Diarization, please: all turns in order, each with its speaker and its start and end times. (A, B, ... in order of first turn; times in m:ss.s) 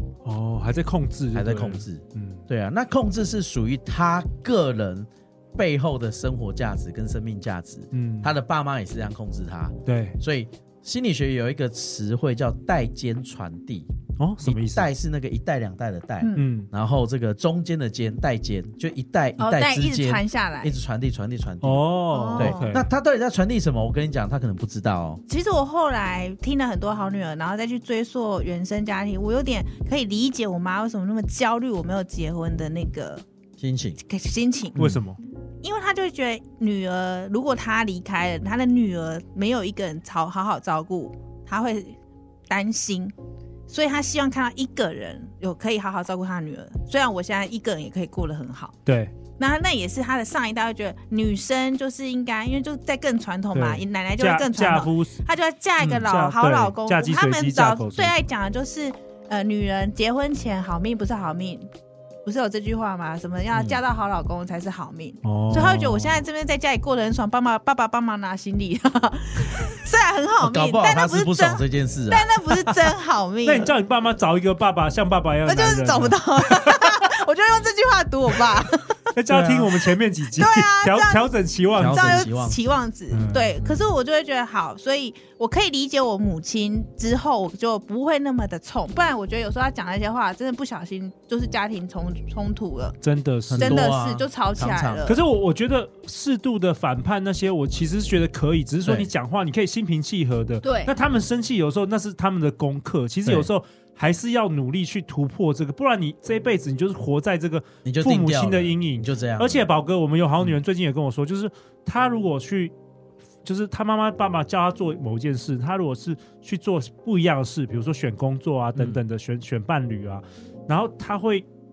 0:00.2-0:02.4 A
0:01.3-0:13.9 B
0:07.9-0:08.3 A
0:09.8-0:10.2 A
0:14.2-0:14.9 A
0:14.4-0:21.8 B
0:16.2-0:16.4 C
0:16.4-0:16.7 A
0:19.4-0:20.8 C
0:21.6-0:22.9 A
0:22.1-0:22.7 C
0:22.3-0:25.2 B
0:25.3-0:33.2 C
0:33.6-0:34.0 B
0:34.0-0:34.8 C
0:34.8-0:35.0 B
0:34.8-0:35.2 A
0:35.6-0:42.0 C
0:42.5-0:43.1 C
0:43.7-0:48.8 C
0:48.8-0:49.1 A
0:49.4-1:01.7 C
0:53.5-0:55.1 A
0:55.8-0:58.1 A
1:02.2-1:13.7 C
1:03.5-1:03.8 B
1:05.2-1:06.2 A
1:10.4-1:12.2 B
1:13.4-1:17.0 A
1:15.4-1:19.0 C
1:19.1-1:22.3 A
1:19.3-1:19.7 B
1:20.4-1:33.0 C
1:21.7-1:22.6 B
1:23.1-1:23.7 A
1:33.0-1:33.9 A
1:33.5-1:35.1 B
1:33.6-1:35.2 C
1:35.1-1:52.7 A
1:40.6-1:40.9 C
1:47.8-1:49.6 B
1:53.4-2:01.4 A
1:58.8-1:59.0 B